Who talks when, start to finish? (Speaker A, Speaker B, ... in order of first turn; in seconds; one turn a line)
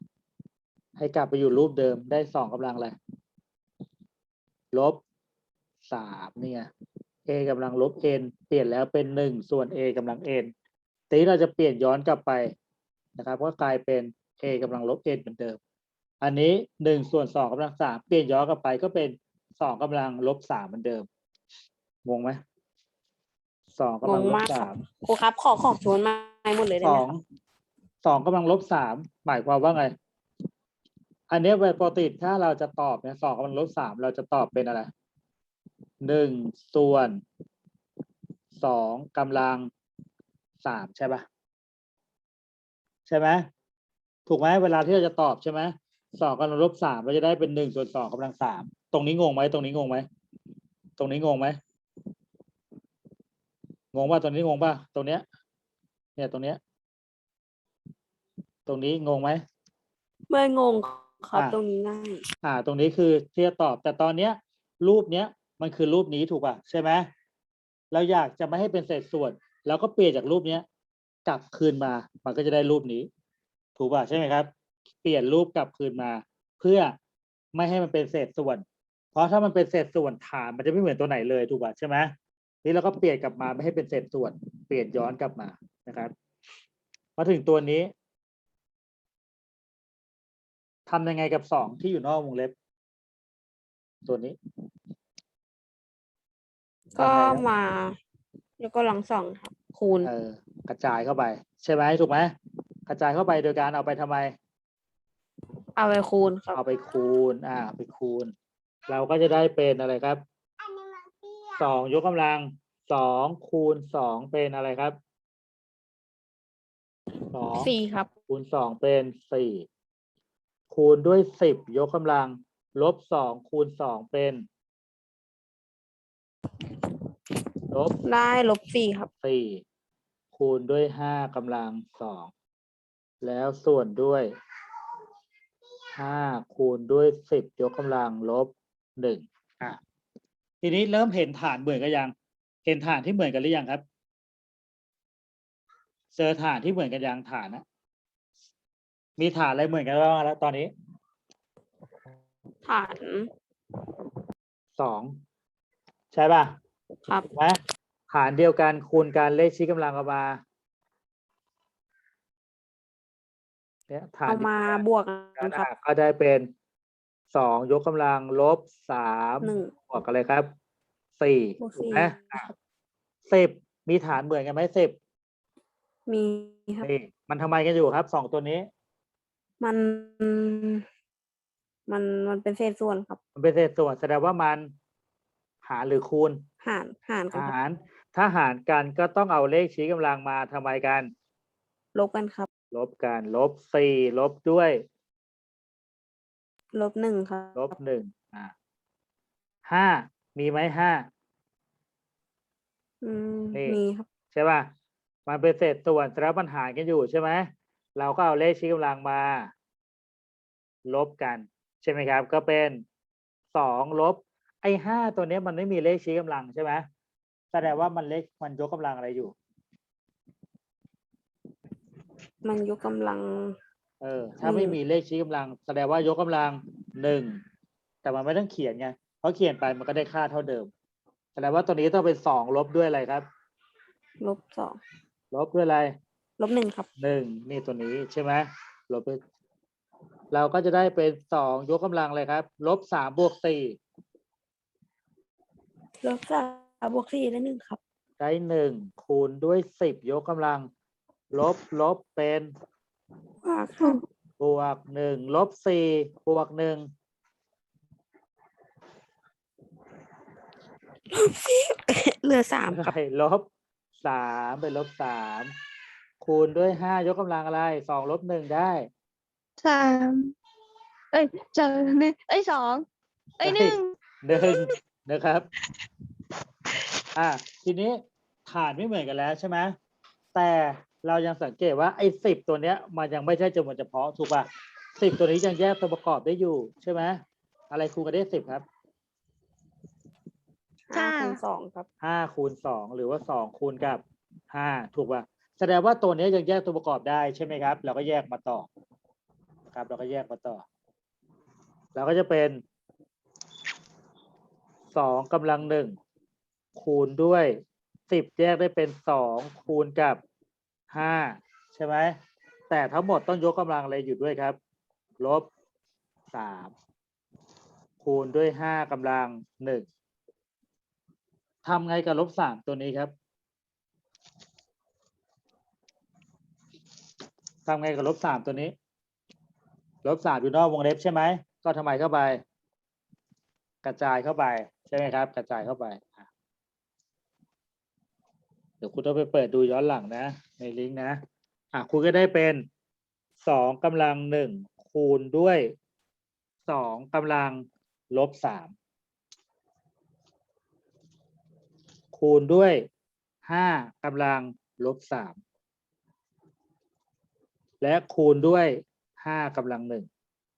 Speaker A: 1.0-2.9
Speaker A: 4.7-5.0
Speaker A: 5.8-6.7
Speaker A: 7.2-10.5
Speaker A: 11.1-12.5
Speaker A: 13.2-15.6
Speaker A: 16.2-21.1
Speaker A: 22.0-22.4
Speaker A: 23.7-24.8
Speaker B: 24.0-27.1
Speaker A: 26.8-27.2
Speaker A: 28.0-29.9
Speaker A: 31.3-34.9
Speaker A: 36.0-37.2
Speaker A: 38.5-39.7
Speaker A: 40.6-41.2
Speaker A: 43.0-43.5
Speaker A: 44.3-50.0
Speaker A: 51.0-51.6
Speaker A: 53.9-55.2
Speaker A: 56.1-56.6
Speaker A: 58.6-59.4
Speaker B: 60.3-62.2
Speaker A: 62.4-67.1
Speaker A: 67.9-70.6
Speaker A: 71.2-73.1
Speaker A: 73.8-74.5
Speaker A: 75.0-77.0
Speaker A: 77.5-86.1
Speaker A: 87.2-87.9
Speaker A: 90.9-92.5
Speaker A: 94.0-94.4
Speaker A: 97.0-97.4
Speaker B: 97.0-98.0
Speaker B: 98.6-100.1
Speaker A: 100.0-102.3
Speaker A: 102.9-104.3
Speaker B: 105.8-106.6
Speaker A: 106.5-108.3
Speaker A: 108.9-110.2
Speaker A: 111.6-115.0
Speaker A: 117.3-117.7
Speaker B: 117.5-118.1
Speaker A: 118.3-119.7
Speaker A: 120.7-124.4
Speaker A: 127.7-127.9
Speaker B: 128.0-129.1
Speaker A: 129.2-129.6
Speaker A: 130.3-132.3
Speaker A: 133.2-134.3
Speaker A: 135.9-139.8
Speaker A: 140.6-142.1
Speaker A: 142.6-143.8
Speaker A: 146.1-147.6
Speaker A: 149.2-150.7
Speaker B: 152.6-153.3
Speaker A: 154.8-155.2
Speaker A: 156.1-156.6
Speaker A: 157.3-157.6
Speaker A: 158.1-160.4
Speaker A: 163.9-164.8
Speaker B: 164.3-165.7
Speaker A: 165.4-166.5
Speaker A: 167.3-170.5
Speaker B: 169.4-169.7
Speaker A: 171.2-172.5
Speaker B: 171.6-172.2
Speaker A: 173.3-174.9
Speaker B: 176.1-176.9
Speaker A: 176.8-178.7
Speaker B: 179.6-180.8
Speaker B: 181.9-183.2
Speaker A: 183.3-184.7
Speaker A: 185.6-186.4
Speaker B: 186.6-187.5
Speaker A: 187.3-191.1
Speaker B: 191.9-192.5
Speaker A: 192.7-194.8
Speaker B: 196.7-197.7
Speaker A: 197.5-198.5
Speaker A: 199.7-201.1
Speaker B: 203.0-204.1
Speaker A: 203.5-203.8
Speaker A: 204.3-204.7
Speaker A: 205.2-209.5
Speaker A: 210.9-212.8
Speaker A: 213.5-216.8
Speaker A: 217.5-219.3
Speaker B: 222.4-223.6
Speaker A: 224.0-227.4
Speaker B: 224.4-224.8
Speaker A: 228.0-230.7
Speaker A: 231.3-233.2
Speaker B: 234.2-234.8
Speaker A: 235.3-235.9
Speaker B: 236.4-236.9
Speaker A: 237.0-239.2
Speaker A: 240.3-243.8
Speaker B: 246.0-247.8
Speaker A: 248.2-250.7
Speaker A: 251.3-252.5
Speaker B: 253.4-254.0
Speaker A: 254.4-256.9
Speaker B: 261.1-262.9
Speaker A: 262.7-263.4
Speaker A: 264.0-265.5
Speaker A: 266.2-268.9
Speaker C: 269.6-270.3
Speaker C: 271.1-272.9
Speaker C: 273.4-274.7
Speaker A: 273.4-275.5
Speaker A: 277.1-279.8
Speaker A: 280.3-288.6
Speaker B: 290.9-291.9
Speaker C: 290.9-291.4
Speaker A: 292.0-298.7
Speaker A: 299.7-300.6
Speaker A: 301.9-302.6
Speaker A: 304.9-306.0
Speaker A: 306.8-310.2
Speaker A: 310.9-312.1
Speaker A: 312.7-314.6
Speaker A: 315.2-315.5
Speaker A: 316.3-316.7
Speaker A: 318.0-319.9
Speaker A: 321.6-323.1
Speaker A: 327.6-328.7
Speaker A: 330.0-332.4
Speaker A: 333.8-336.3
Speaker A: 338.8-341.2
Speaker A: 341.7-342.6
Speaker A: 343.4-345.7
Speaker A: 346.6-348.7
Speaker A: 352.1-352.9
Speaker A: 353.4-355.4
Speaker A: 357.8-360.1